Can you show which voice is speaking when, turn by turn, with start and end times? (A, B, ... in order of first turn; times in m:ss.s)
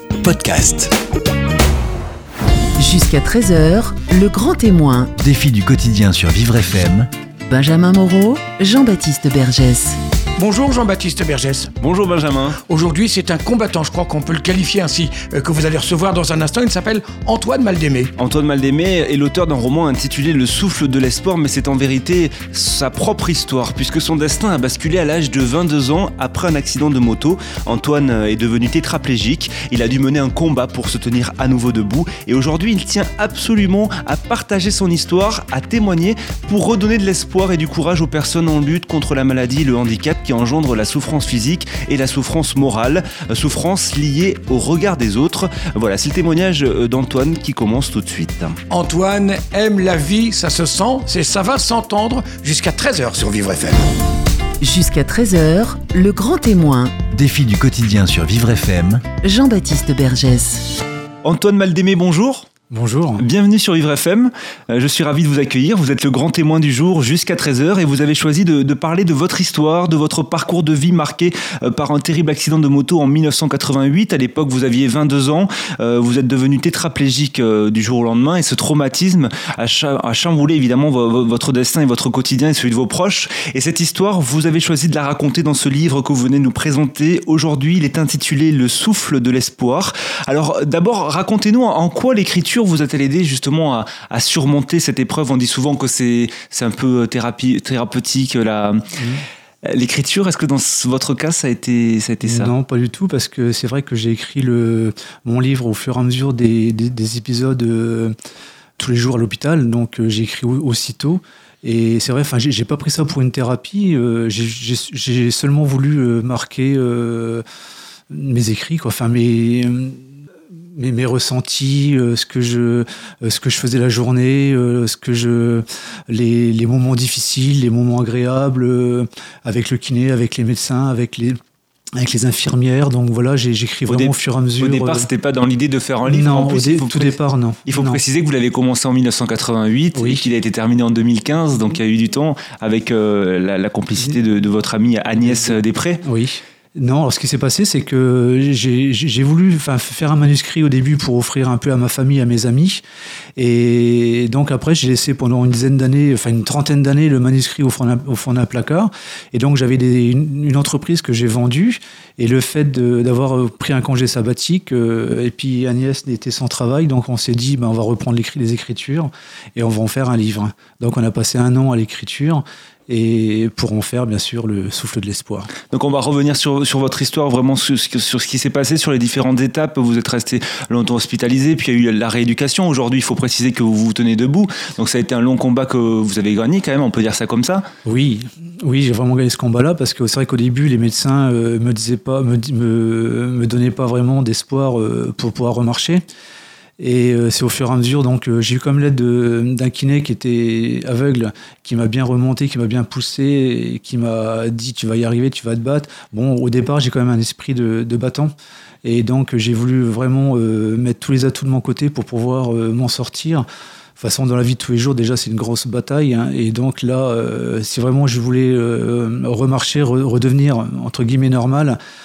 0:00.2-0:00.9 A
0:02.8-0:05.1 B
0:05.2-0:07.1 A
0:07.5-0:10.0 B
0:10.4-0:11.7 C
0:11.8-0:12.6 D
0:12.6-0:18.1 C
0:18.2-0:48.6 D
0:48.7-0:53.9 C
0:54.6-0:57.0 B
0:57.1-0:59.1 A
0:59.2-1:00.7 B
1:01.2-1:02.5 D
1:02.7-1:03.3 E
1:03.2-1:38.9 D
1:39.0-1:39.2 E
1:39.6-1:42.5 D
1:42.2-1:48.2 E
1:48.8-1:57.4 E
1:58.1-2:00.0 E
2:00.7-2:11.4 E
2:12.0-2:15.1 E
2:13.9-2:17.1 D
2:16.1-2:18.0 E
2:17.7-2:26.0 D
2:19.9-2:20.2 E
2:25.2-2:32.8 E
2:33.4-2:55.5 E
2:55.7-3:07.7 D
3:07.8-3:16.0 E
3:16.8-3:28.3 E
3:28.8-3:33.4 E
3:34.0-3:41.8 E